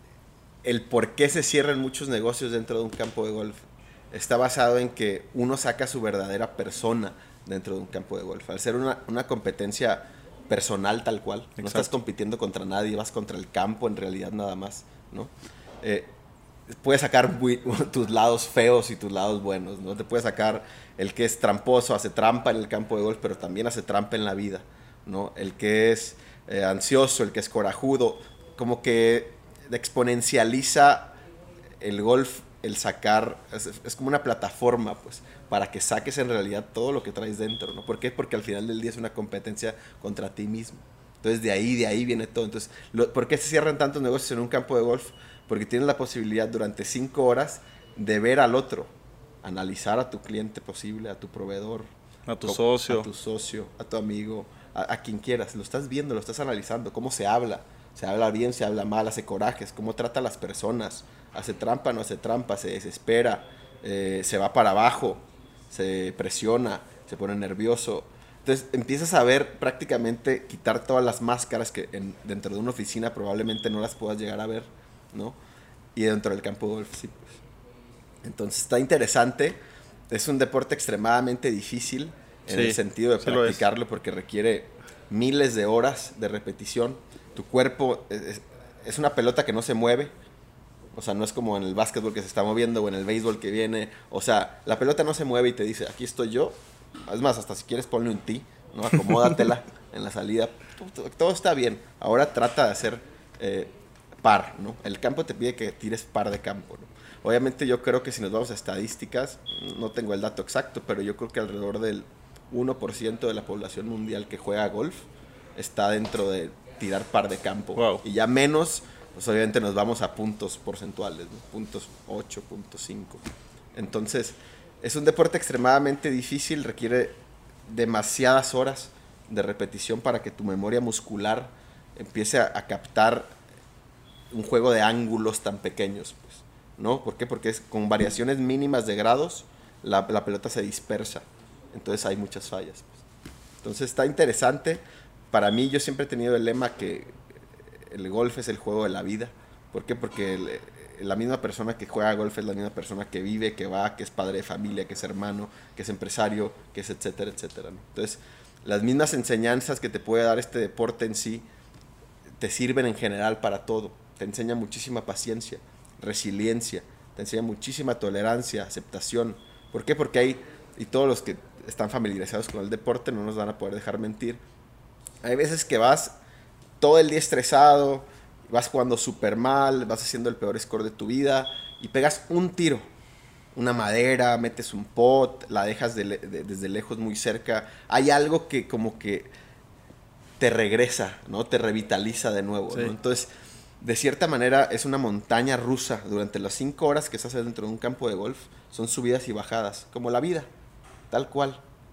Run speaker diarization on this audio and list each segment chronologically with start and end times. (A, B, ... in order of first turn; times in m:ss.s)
0:00.6-0:03.6 A
0:04.1-0:16.1 A
0:11.6-0:11.8 B
0:16.7-0:31.2 A
0:31.8-0:51.9 A
0:52.3-0:53.1 B
0:52.4-1:15.4 A
1:15.9-1:17.4 A
1:18.2-1:19.6 A
1:20.1-1:30.1 A
1:22.5-1:23.6 B
1:30.9-1:43.7 A
1:44.2-2:03.2 A
1:57.8-1:58.0 B
2:03.7-2:13.4 A
2:14.3-2:23.0 A
2:23.6-2:27.2 A
2:27.9-2:41.4 A
2:42.4-2:54.4 A
2:55.2-2:56.2 A
2:56.8-3:02.8 A
3:03.5-3:09.3 A
3:10.4-3:13.3 A
3:13.8-3:20.5 A
3:21.1-3:21.6 A